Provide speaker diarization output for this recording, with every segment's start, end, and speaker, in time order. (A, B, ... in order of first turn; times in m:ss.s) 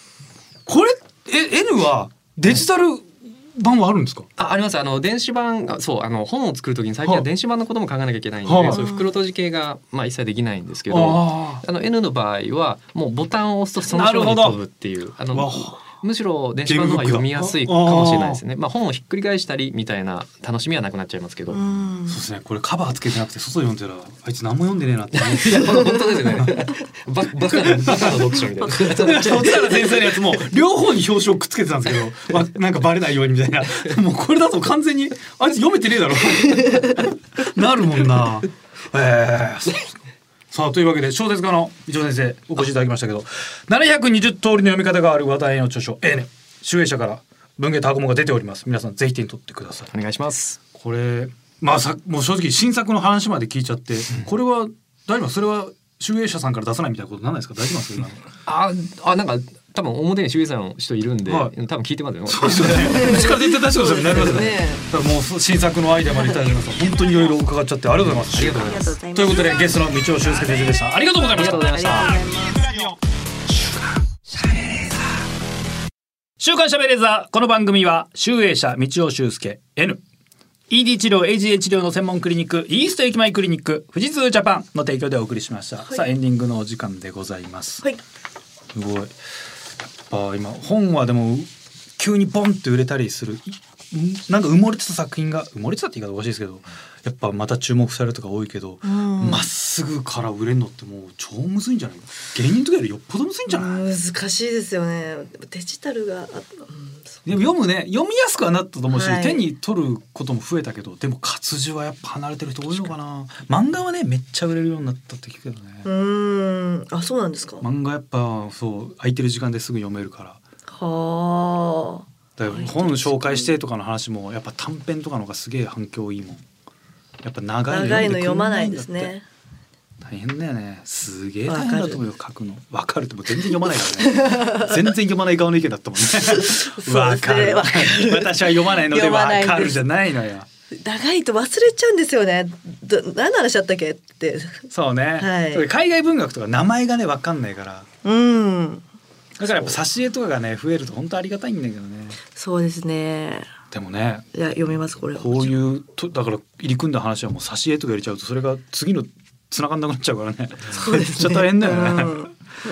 0:00.7-0:04.3 A
0:04.4-0:21.6 B
0:08.5-0:08.8 A
0:08.7-0:09.1 C
0:10.9-0:11.6 A
0:13.8-0:14.6 A
0:15.3-0:15.8 A
0:16.6-0:18.4 A
0:21.5-0:22.2 C
0:22.1-0:26.6 A
0:25.2-0:29.7 B
0:27.5-0:39.9 A
0:28.6-0:29.9 C
0:40.5-0:49.9 A
0:49.9-0:50.6 B
0:50.7-0:58.2 A
0:58.5-1:03.2 B
1:01.3-1:01.5 A
1:02.3-1:12.9 A
1:02.9-1:04.9 C
1:08.2-1:09.0 B
1:08.4-1:09.9 C
1:11.4-1:12.2 B
1:11.4-1:12.7 C
1:14.4-1:15.0 A
1:16.4-1:20.0 A
1:20.7-1:27.8 A
1:28.7-1:29.1 A
1:29.8-1:43.8 A
1:38.8-1:39.5 C
1:43.5-1:47.2 C
1:47.3-1:55.9 A
1:48.9-1:49.4 C
1:55.8-1:57.6 C
1:57.6-2:00.4 A
2:00.7-2:03.5 C
2:02.4-2:06.4 A
2:07.2-2:09.1 A
2:07.7-2:09.2 C
2:10.0-2:20.5 A
2:11.5-2:12.0 C
2:14.0-2:14.8 C
2:16.2-2:19.8 C
2:20.8-2:25.7 C
2:24.7-2:27.9 A
2:28.0-2:28.8 C
2:29.4-2:32.2 A
2:29.4-2:29.8 B
2:32.3-2:33.5 C
2:33.7-2:34.3 A
2:34.3-2:35.5 C
2:35.2-2:42.2 A
2:40.7-2:42.3 C